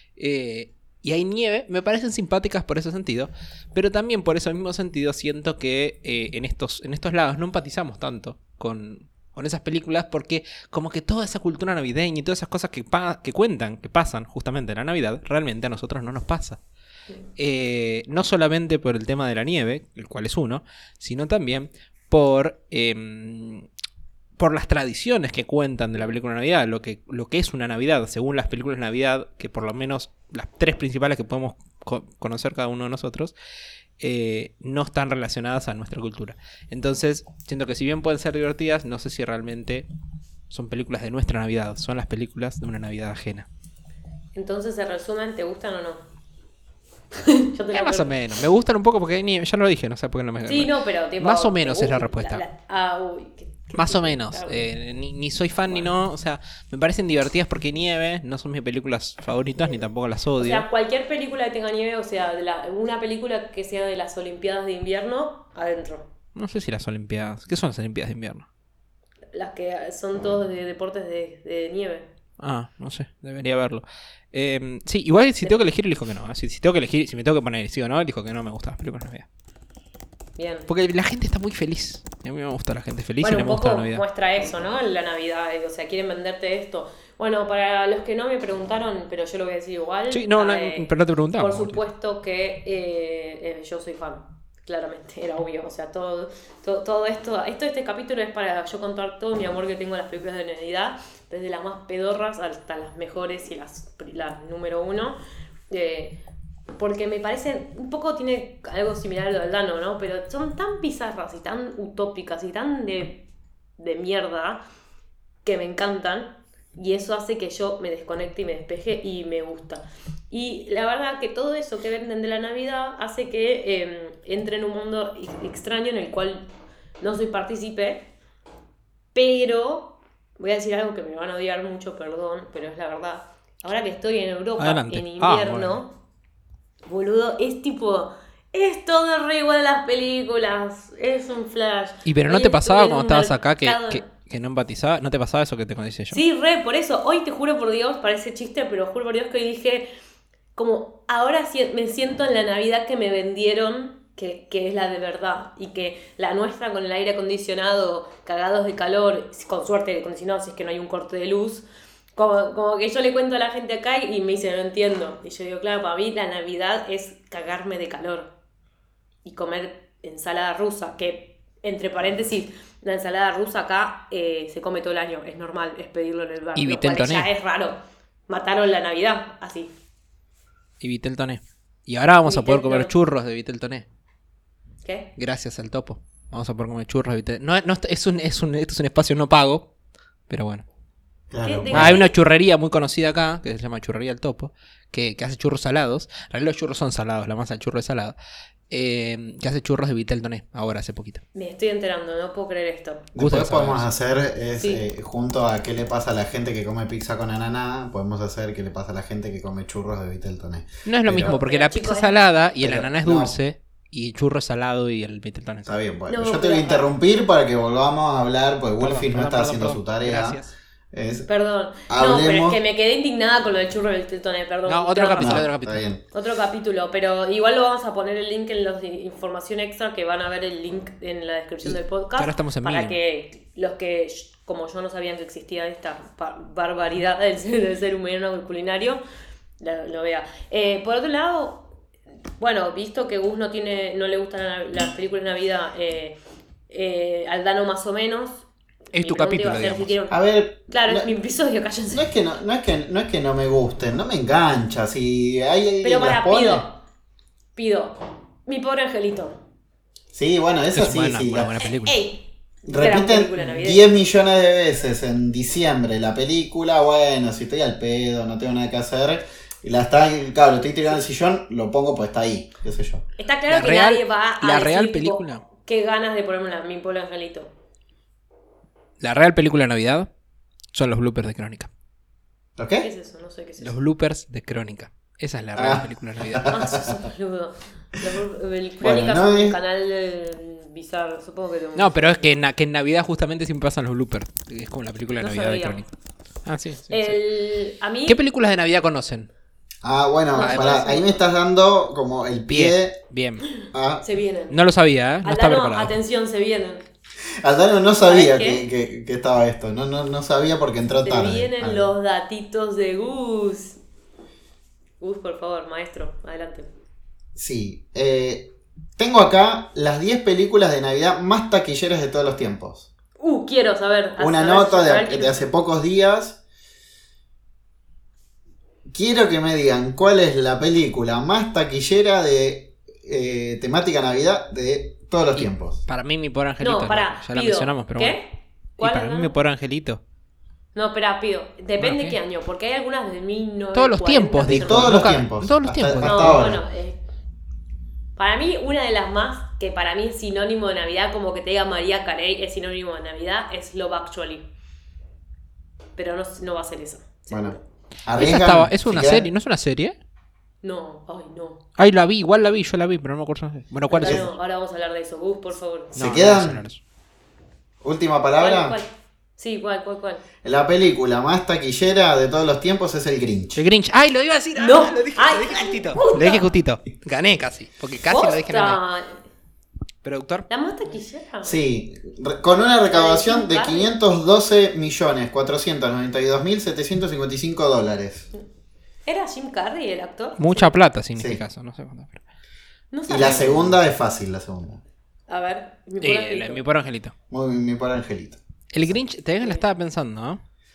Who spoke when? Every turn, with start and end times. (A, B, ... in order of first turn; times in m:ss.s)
0:00.2-0:16.6 A
0:17.4-0:23.7 A
0:24.4-0:33.3 A
0:34.0-0:39.9 A
0:40.5-0:43.5 A
0:44.3-0:46.0 B
0:47.2-0:48.1 B
0:47.7-0:52.4 A
0:50.4-0:54.7 B
0:53.7-1:00.6 A
1:00.4-1:06.1 B
1:06.3-1:08.5 A
1:09.3-1:12.1 B
1:12.4-1:19.2 A
1:20.4-1:20.7 B
1:20.7-1:24.0 A
1:23.2-1:45.2 B
1:30.1-1:31.8 A
1:45.7-1:46.2 B
1:46.8-1:54.6 B
1:55.4-2:06.5 B
2:07.0-2:08.1 B
2:09.1-2:16.0 B
2:14.6-2:15.8 A
2:16.8-2:24.1 B
2:22.0-2:26.2 A
2:26.1-2:29.9 B
2:30.5-2:41.6 B
2:42.2-2:48.3 B
2:49.2-2:59.7 B
2:56.6-2:57.3 A
3:00.8-3:03.8 A
3:02.2-3:02.9 B
3:04.8-3:05.1 B
3:05.2-3:09.7 A
3:10.3-3:10.6 A
3:11.3-3:12.0 C
3:11.4-3:12.1 B
3:11.7-3:18.2 A
3:18.7-3:21.2 A
3:21.3-3:23.1 B
3:23.2-3:31.4 C
3:23.2-3:23.9 A
3:24.6-3:24.8 B
3:30.8-3:35.7 A
3:31.2-3:32.2 B
3:32.6-3:33.4 C
3:35.7-3:40.4 C
3:36.1-3:36.9 B
3:38.8-3:40.5 A
3:40.9-3:41.3 C
3:41.3-3:45.5 B
3:41.9-3:42.6 C
3:44.7-3:45.8 A
3:45.2-3:46.0 C
3:46.1-3:59.0 B
3:52.2-3:53.0 A
3:59.6-4:01.7 B
4:02.4-4:06.2 B
4:06.7-4:12.1 B
4:08.9-4:09.9 A
4:10.1-4:11.1 C
4:11.9-4:16.6 C
4:15.8-4:16.8 B
4:17.6-4:19.4 B
4:20.1-4:21.5 C
4:20.7-4:22.0 A
4:21.6-4:24.1 B
4:22.6-4:33.0 C
4:33.2-4:37.5 B
4:33.5-4:35.4 A
4:39.0-4:40.1 A
4:40.7-4:41.7 A
4:42.6-4:42.9 C
4:42.8-4:43.8 B
4:43.6-4:46.5 A
4:45.5-4:47.0 C
4:46.5-4:52.3 B
4:48.8-4:49.6 C
4:51.8-4:55.9 A
4:55.2-4:55.8 B
4:56.4-4:57.2 A
4:56.9-4:58.2 B
4:58.1-4:59.3 A
4:59.8-5:03.0 C
5:00.3-5:01.2 B
5:00.4-5:00.9 A
5:02.5-5:03.5 A
5:03.7-5:04.0 C
5:04.0-5:04.6 B
5:04.5-5:06.0 A
5:05.2-5:06.8 B
5:07.4-5:11.9 C
5:08.0-5:08.6 B
5:11.0-5:13.8 B
5:15.0-5:16.7 B
5:17.4-5:22.9 C
5:23.2-5:25.5 B
5:24.2-5:26.4 C
5:28.9-5:35.8 C
5:35.3-5:38.2 A
5:36.6-5:39.3 B
5:38.8-5:40.0 A
5:40.8-5:45.1 B
5:41.8-5:42.2 A
5:43.7-5:46.4 A
5:44.5-5:46.6 C
5:46.0-5:47.0 B
5:48.2-5:54.5 B
5:56.0-5:57.6 B
5:57.3-5:59.3 C
5:58.2-6:00.0 A
6:00.6-6:01.6 B
6:01.8-6:04.3 A
6:03.9-6:06.0 B
6:06.0-6:06.6 C
6:06.0-6:06.8 A
6:07.8-6:08.8 C
6:08.4-6:10.2 B
6:10.4-6:13.6 C
6:13.6-6:18.8 A
6:14.6-6:16.4 B
6:18.1-6:19.2 B
6:20.0-6:20.5 A
6:20.5-6:21.6 B
6:21.4-6:28.3 C
6:22.9-6:23.9 B
6:29.0-6:30.7 B
6:30.4-6:32.2 A
6:31.2-6:31.4 C
6:32.9-6:33.7 B
6:33.1-6:34.8 C
6:35.3-6:36.6 B
6:36.0-6:37.1 A
6:37.3-6:38.4 C
6:38.7-6:40.4 A